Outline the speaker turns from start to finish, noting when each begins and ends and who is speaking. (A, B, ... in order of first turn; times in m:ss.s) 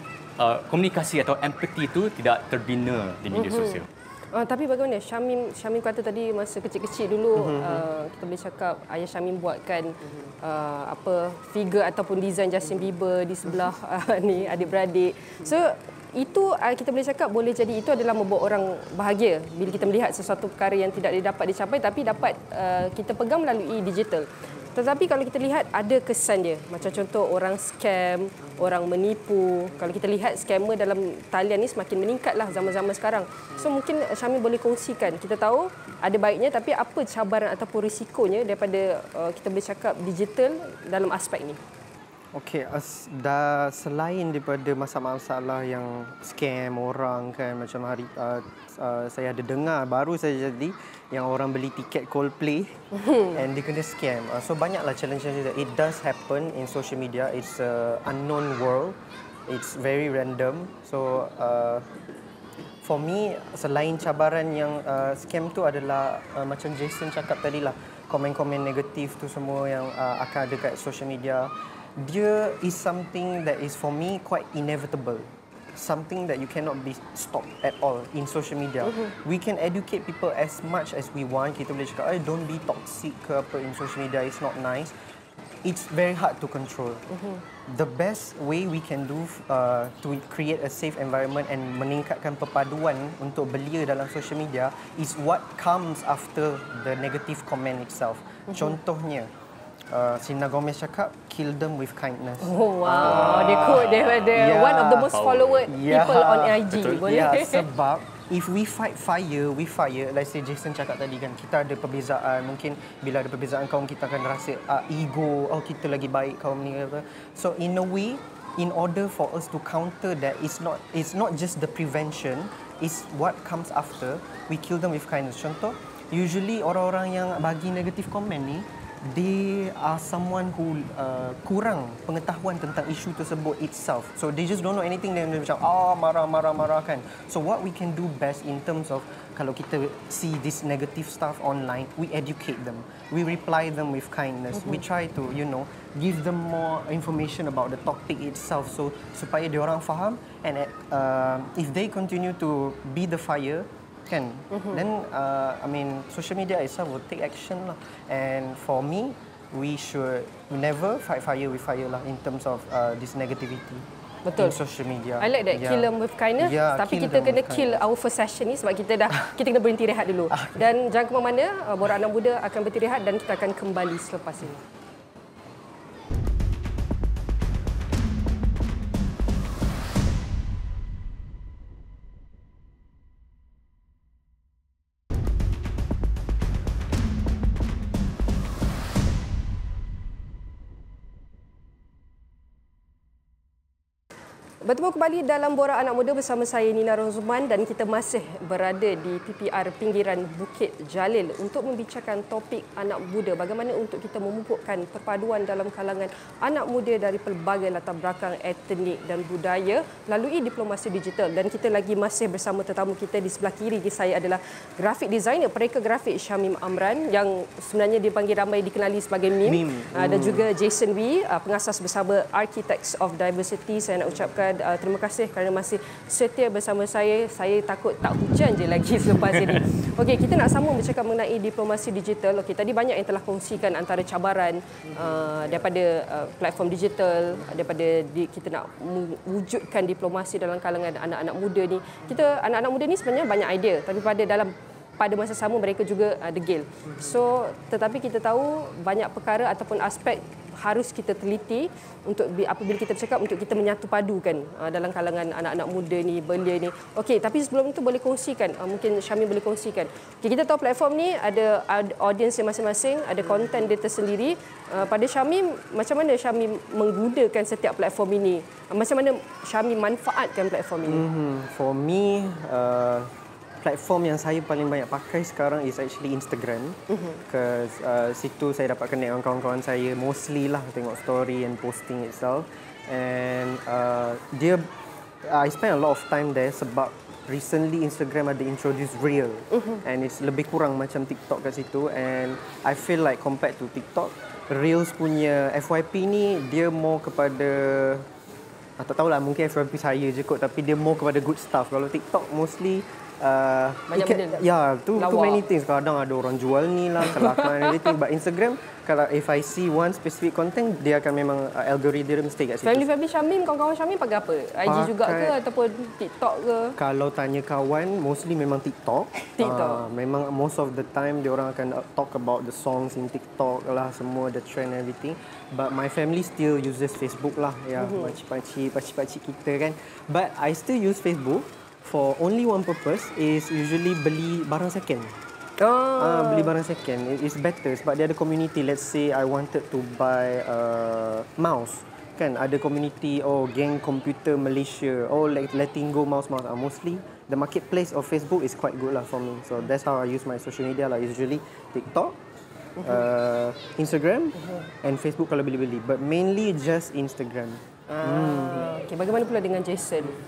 0:00.4-0:03.9 A
0:03.3-0:41.6 B
0:07.4-0:07.8 C
0:42.3-1:01.9 C
0:52.9-0:53.3 B
1:02.8-1:24.9 C
1:25.6-1:27.1 C
1:27.7-1:39.3 C
1:39.9-1:45.1 C
1:42.4-1:47.6 B
1:43.1-1:44.3 A
1:45.1-1:45.7 A
1:45.7-2:43.8 C
1:46.7-1:47.1 A
2:34.5-2:34.8 B
2:44.2-2:44.6 B
2:44.4-2:47.8 C
2:45.2-2:54.6 B
2:50.3-2:50.6 C
3:14.6-4:31.0 B
3:39.4-3:40.5 C
4:30.8-4:44.7 C
4:36.9-4:37.2 B
4:45.2-4:58.1 C
4:58.8-5:12.9 C
5:03.9-5:04.4 B
5:04.9-5:05.4 B
5:07.1-5:07.9 B
5:12.6-5:16.8 B
5:14.6-5:15.4 C
5:16.8-5:35.2 C
5:19.4-5:19.8 B
5:27.8-5:28.1 B
5:35.6-5:36.5 B
5:36.0-5:52.2 C
5:52.8-5:58.7 C
5:57.9-6:00.2 B